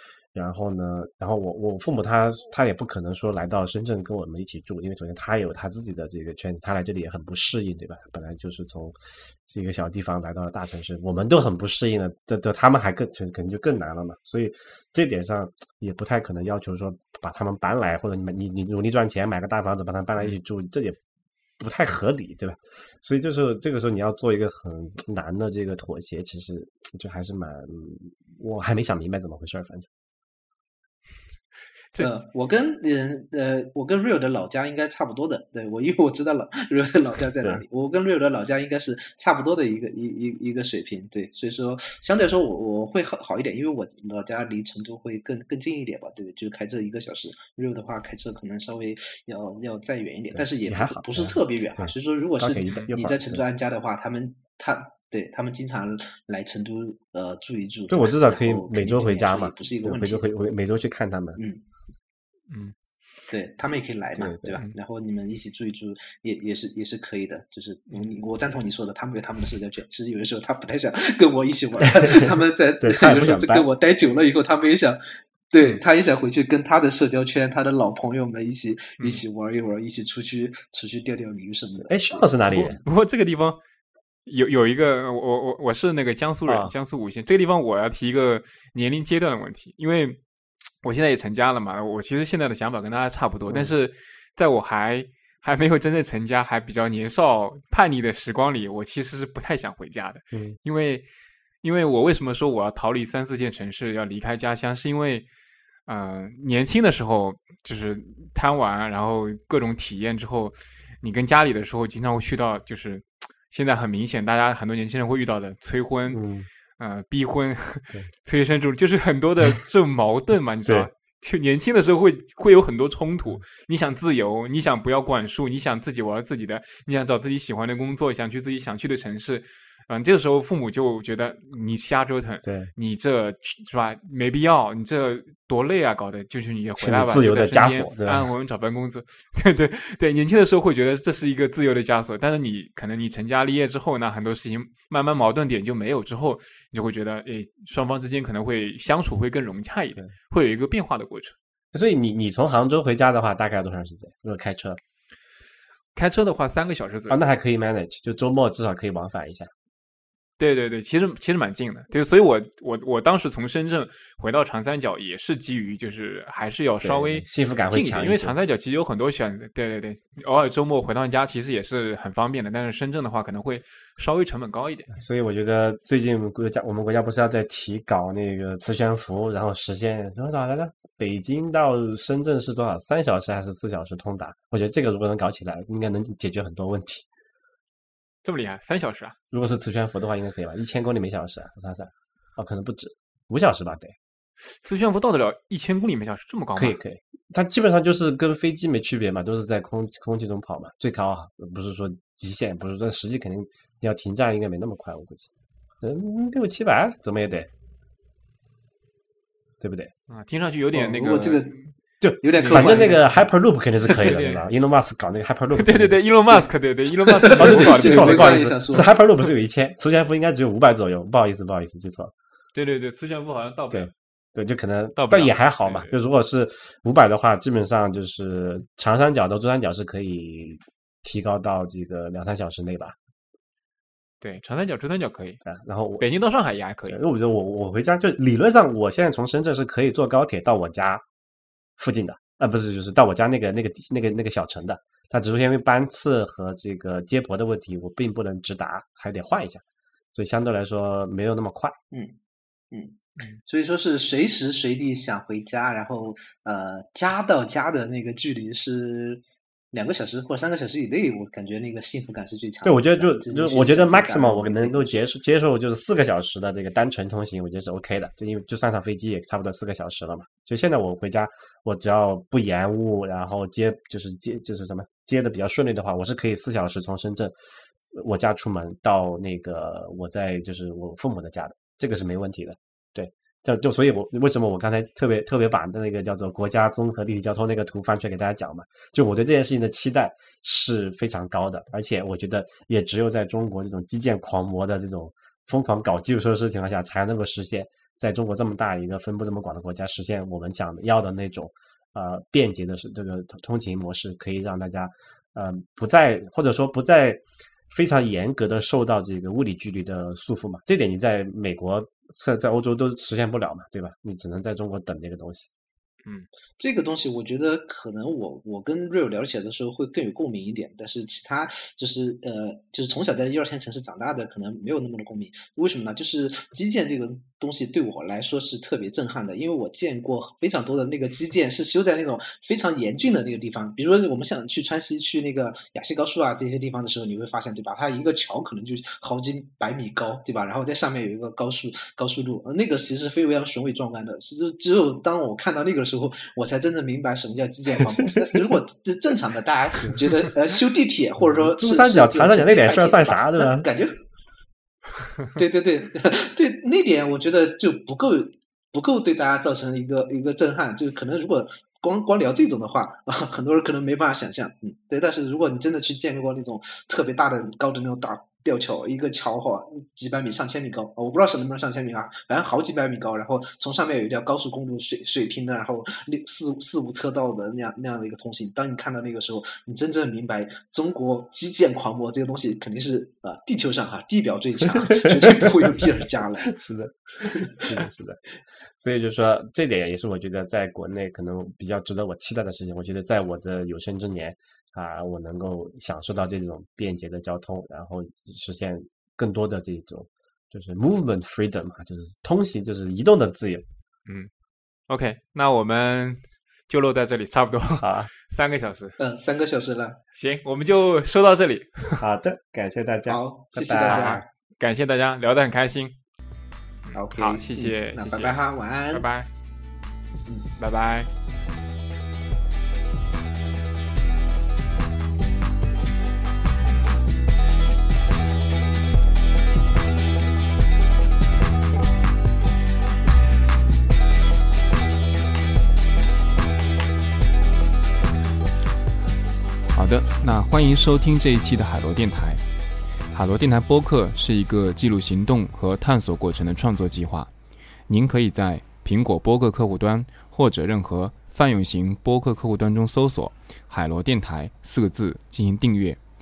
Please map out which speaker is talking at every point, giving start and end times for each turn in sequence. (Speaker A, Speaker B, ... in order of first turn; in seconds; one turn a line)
Speaker A: 0.3-21.0
Speaker A: 21.6-29.9
Speaker B: 32.0-60.2
Speaker A: 50.3-53.4
Speaker A: 57.9-61.4
Speaker C: 62.5-62.7
Speaker B: 63.3-82.3
Speaker A: 64.2-64.6
Speaker A: 72.8-73.7
Speaker A: 81.8-82.8
Speaker C: 82.5-83.6
Speaker C: 84.2-90.2
Speaker A: 86.5-86.7
Speaker C: 90.8-101.1
Speaker A: 93.5-93.7
Speaker A: 100.3-100.6
Speaker C: 101.6-105.3
Speaker C: 105.9-116.2
Speaker A: 116.1-116.5
Speaker C: 116.8-151.4
Speaker A: 132.4-132.7
Speaker A: 136.8-138.3
Speaker A: 151.7-154.8
Speaker C: 155.9-157.2
Speaker A: 157.1-159.5
Speaker C: 160.4-174.9
Speaker A: 166.8-168.3
Speaker A: 174.9-187.1
Speaker C: 188.2-189.2
Speaker A: 189.3-193.9
Speaker C: 194.4-196.8
Speaker A: 196.6-205.3
Speaker A: 205.8-207.5
Speaker A: 209.6-209.9
Speaker C: 210.1-211.7
Speaker B: 210.7-211.6
Speaker A: 212.0-216.0
Speaker B: 212.2-213.0
Speaker C: 212.3-213.1
Speaker C: 213.9-214.4
Speaker C: 215.6-218.6
Speaker B: 217.2-218.9
Speaker A: 217.3-222.1
Speaker C: 222.6-223.9
Speaker A: 223.7-232.9
Speaker C: 225.0-225.9
Speaker C: 234.2-235.4
Speaker A: 235.4-236.1
Speaker C: 236.0-237.0
Speaker A: 236.9-241.0
Speaker A: 241.8-251.8
Speaker B: 252.7-265.0
Speaker A: 262.6-277.3
Speaker A: 277.9-315.5
Speaker B: 316.6-354.0
Speaker A: 351.2-353.7
Speaker B: 355.4-386.5
Speaker A: 385.1-385.9
Speaker A: 386.5-388.2
Speaker A: 388.8-403.6
Speaker C: 404.1-404.3
Speaker C: 404.9-409.0
Speaker A: 407.8-408.1
Speaker B: 409.0-410.0
Speaker C: 410.1-412.0
Speaker A: 412.0-414.3
Speaker B: 413.1-414.2
Speaker C: 413.7-415.9
Speaker C: 416.9-418.4
Speaker B: 416.9-419.1
Speaker C: 418.9-419.3
Speaker C: 420.3-421.1
Speaker D: 439.7-442.4
Speaker D: 443.1-447.3
Speaker D: 447.9-456.0